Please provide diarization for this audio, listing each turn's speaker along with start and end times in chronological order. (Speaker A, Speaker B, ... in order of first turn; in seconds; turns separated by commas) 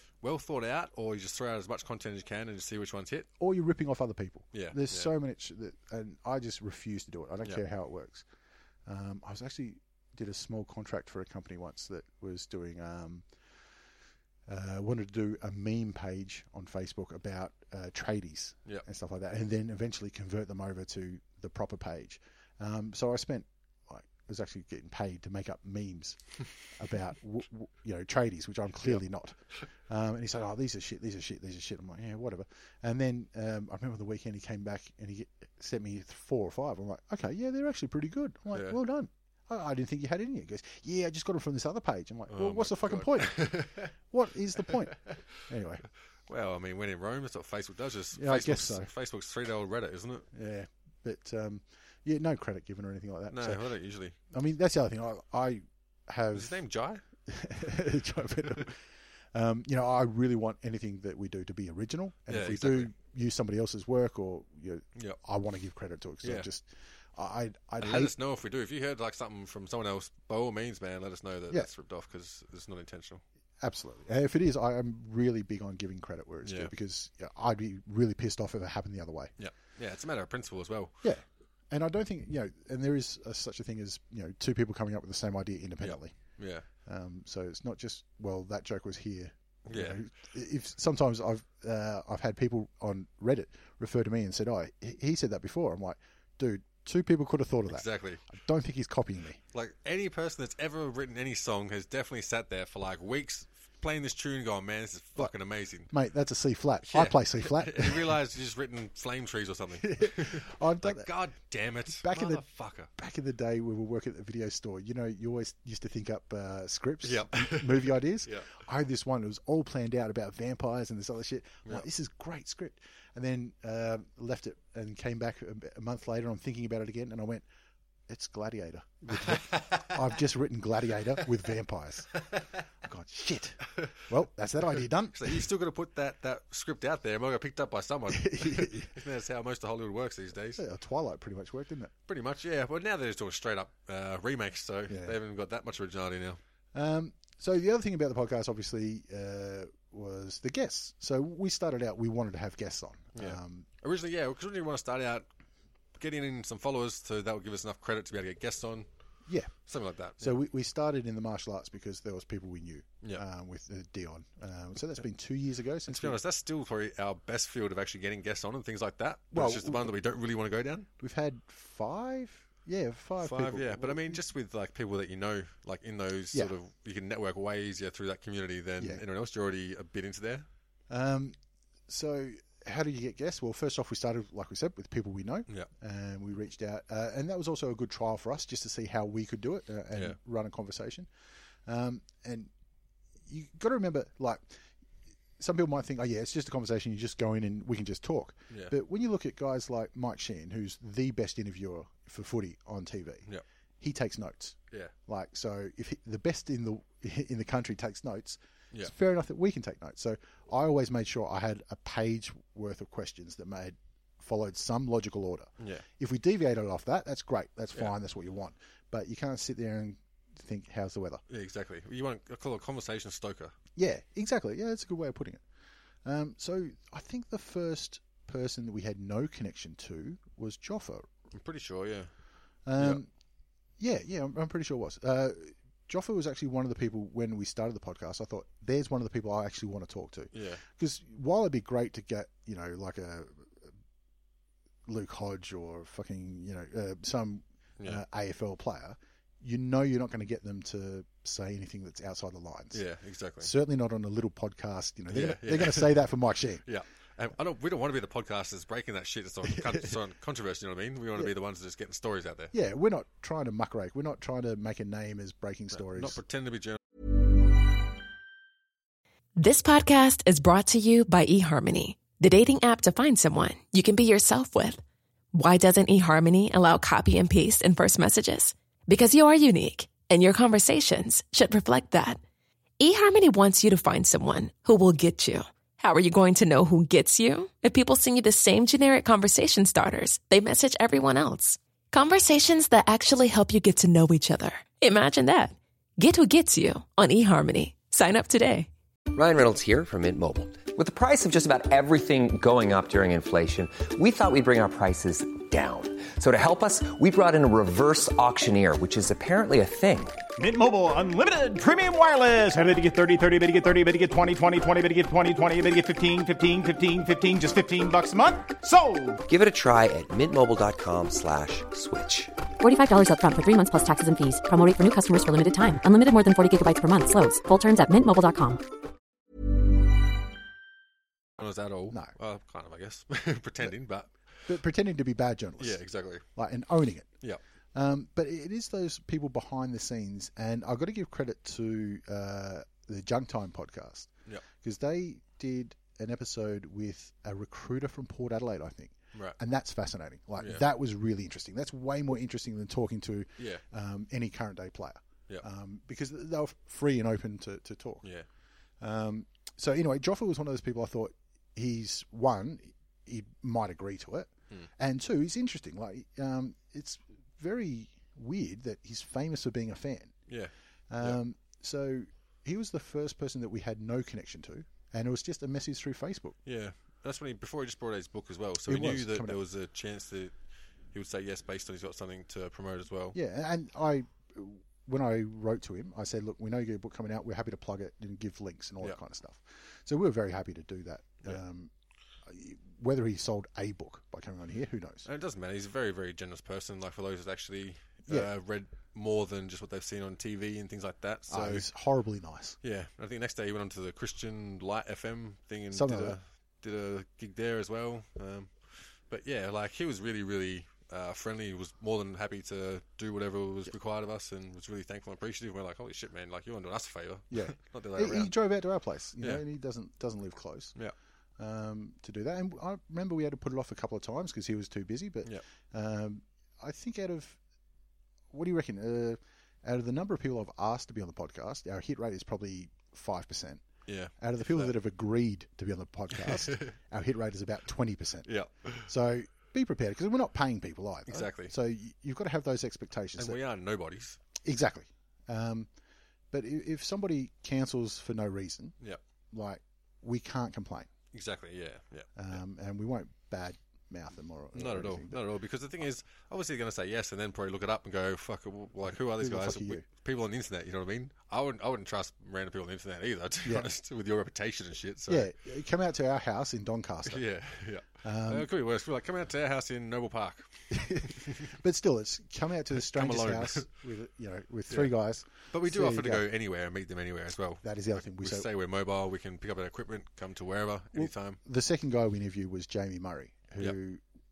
Speaker A: 0.2-3.3, Speaker B: 3.4-8.2, Speaker A: 4.5-5.1, Speaker B: 8.9-13.3, Speaker B: 14.5-45.9, Speaker A: 38.5-38.8, Speaker A: 42.3-43.9, Speaker A: 46.3-50.3, Speaker B: 48.1-48.9, Speaker B: 50.3-53.6, Speaker A: 53.3-54.2, Speaker B: 54.3-56.5, Speaker A: 56.3-57.0, Speaker B: 57.3-68.1, Speaker A: 62.3-62.9, Speaker A: 66.2-66.5, Speaker A: 67.8-73.2, Speaker B: 73.6-79.3, Speaker A: 76.4-76.7, Speaker A: 79.4-81.0, Speaker B: 81.0-86.2, Speaker A: 85.8-86.7, Speaker B: 86.8-99.4, Speaker A: 89.7-90.0, Speaker A: 97.7-98.2, Speaker A: 99.5-105.9, Speaker B: 105.9-108.2, Speaker A: 106.9-112.9, Speaker B: 109.8-111.1, Speaker B: 111.9-127.5, Speaker A: 117.0-118.5, Speaker B: 128.1-135.5, Speaker A: 129.1-130.0, Speaker A: 135.1-140.6, Speaker B: 138.1-138.9, Speaker B: 140.6-141.9, Speaker A: 142.1-146.4, Speaker B: 144.9-145.2, Speaker B: 146.7-153.7, Speaker A: 153.2-155.3, Speaker A: 156.0-158.9, Speaker B: 159.3-159.5, Speaker A: 159.7-160.4, Speaker B: 160.2-166.2, Speaker A: 165.9-170.9, Speaker B: 169.3-169.9, Speaker B: 171.0-174.2, Speaker A: 173.2-180.5, Speaker B: 180.9-181.4, Speaker B: 181.9-191.1, Speaker A: 189.9-190.2, Speaker B: 191.7-192.5, Speaker B: 193.3-194.6, Speaker B: 195.4-203.3, Speaker A: 198.5-198.8, Speaker B: 203.8-221.2, Speaker A: 215.6-215.8, Speaker A: 221.3-223.5, Speaker B: 223.8-225.4, Speaker B: 226.0-231.1, Speaker A: 231.3-232.1, Speaker B: 232.7-233.1, Speaker A: 232.8-233.0, Speaker B: 233.8-243.7, Speaker A: 240.3-240.6, Speaker B: 244.9-252.8, Speaker A: 252.7-253.5, Speaker B: 253.4-256.6, Speaker A: 255.1-256.0, Speaker A: 256.6-262.5, Speaker B: 259.4-259.9, Speaker B: 262.5-266.2, Speaker A: 265.7-266.8, Speaker C: 269.4-274.8, Speaker C: 275.3-282.2, Speaker C: 282.8-298.7, Speaker D: 299.1-310.2, Speaker E: 310.4-319.2, Speaker D: 319.3-322.3, Speaker F: 322.6-328.6, Speaker A: 331.4-334.1, Speaker B: 334.5-335.8, Speaker A: 335.6-336.2, Speaker B: 336.4-337.1, Speaker B: 337.7-358.1, Speaker A: 350.4-350.6, Speaker B: 358.8-370.2, Speaker A: 370.3-371.2, Speaker B: 370.9-376.4, Speaker A: 376.5-380.3, Speaker B: 378.7-379.4, Speaker A: 380.9-383.2, Speaker B: 383.1-391.7, Speaker B: 392.3-395.1, Speaker A: 395.1-401.7, Speaker B: 401.3-402.6, Speaker A: 402.6-418.3, Speaker B: 405.7-406.2, Speaker B: 417.3-420.8, Speaker B: 421.4-427.4, Speaker B: 428.3-433.6, Speaker A: 433.9-434.7, Speaker B: 434.2-438.3, Speaker A: 436.1-436.8, Speaker A: 438.3-438.9, Speaker B: 438.9-443.4, Speaker A: 441.1-441.5, Speaker A: 443.2-444.2, Speaker B: 444.4-445.7, Speaker B: 446.3-448.8, Speaker B: 449.3-450.9, Speaker A: 451.1-452.4, Speaker B: 452.2-455.2, Speaker A: 454.5-465.3, Speaker B: 458.9-459.9, Speaker B: 463.4-463.7, Speaker B: 465.1-467.2, Speaker A: 467.1-471.5, Speaker B: 468.0-468.5, Speaker B: 470.7-476.3, Speaker A: 472.8-473.7, Speaker A: 474.7-474.9, Speaker A: 475.4-481.4, Speaker B: 477.6-478.5, Speaker B: 480.9-484.0